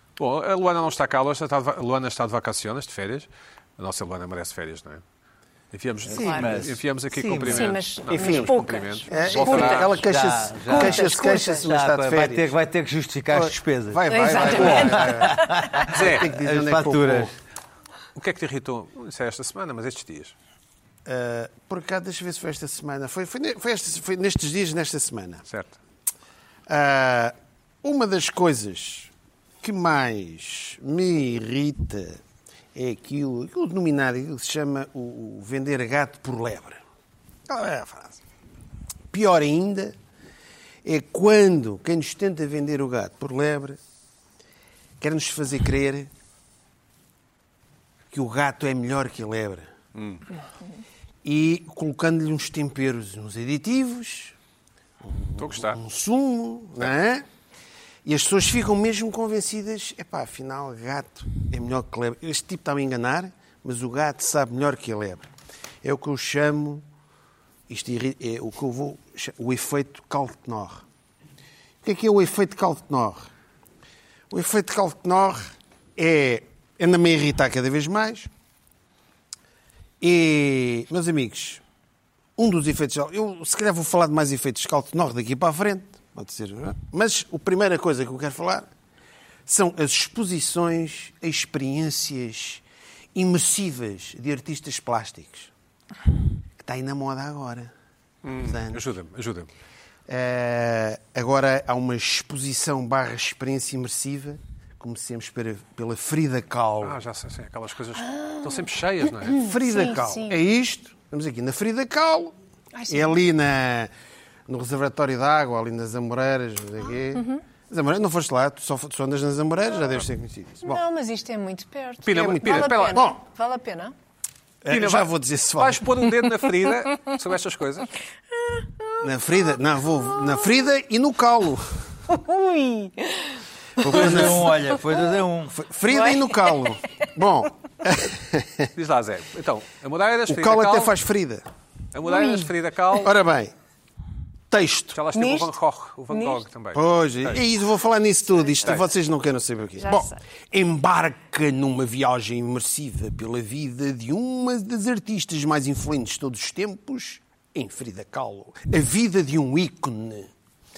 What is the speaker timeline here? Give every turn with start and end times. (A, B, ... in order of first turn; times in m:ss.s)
0:00.2-0:05.0 A
0:05.7-0:10.0 A
0:06.0-0:07.8 B
0:06.2-0:06.7 C
0:07.4-0:09.9 C
0:08.1-0:08.5 D
0:09.1-0:12.5 D
0:09.8-0:17.3 B
0:10.7-0:11.7 C
0:13.3-0:17.3 D
0:14.1-0:15.7 C
0:15.9-0:16.3 A
0:18.1-0:20.3 A
0:21.0-0:25.4 D
0:25.5-0:25.8 A
0:26.7-0:32.2 D
0:32.7-0:36.8 D
0:37.5-0:38.2 D
0:39.1-0:39.9 D
0:40.8-0:43.8 D
0:45.0-0:46.1 D
0:48.1-0:49.7 D
0:49.9-0:50.2 A
0:51.2-0:54.3 D
0:55.0-0:57.2 D
0:55.4-0:55.8 A
0:58.0-1:05.2 D
1:05.8-1:06.8 D
1:07.7-1:10.8 D
1:11.8-1:13.3 D
1:14.3-1:18.3 D
1:20.0-1:21.6 D
1:22.4-1:28.7 D
1:29.4-1:32.6 D
1:33.1-1:35.5 D
1:36.6-1:37.7 D
1:38.2-1:39.5 A
1:38.4-1:38.8 D
1:40.1-1:47.0 D
1:46.8-1:49.4 A
1:48.1-1:48.5 C
1:49.2-1:50.4 C
1:49.3-1:52.3 D
1:52.7-1:53.2 C
1:52.9-1:53.9 D
1:54.5-2:00.8 D
1:57.1-1:57.4 C
2:00.6-2:03.9 C
2:02.0-2:03.0 A
2:02.1-2:03.2 D
2:04.6-2:05.8 D
2:04.7-2:07.9 A
2:08.4-2:09.0 C
2:09.0-2:11.8 D
2:12.1-2:15.0 C
2:13.8-2:14.5 D
2:13.8-2:15.6 B
2:15.5-2:18.7 D
2:15.9-2:16.8 C
2:18.7-2:20.9 A
2:20.3-2:21.4 D
2:21.9-2:23.1 A
2:22.0-2:22.5 C
2:23.0-2:23.5 D
2:24.5-2:25.0 D
2:24.9-2:27.4 A
2:25.1-2:25.5 C
2:26.1-2:26.4 C
2:26.7-2:40.3 D
2:28.4-2:28.8 C
2:28.6-2:28.9 A
2:29.8-2:30.2 C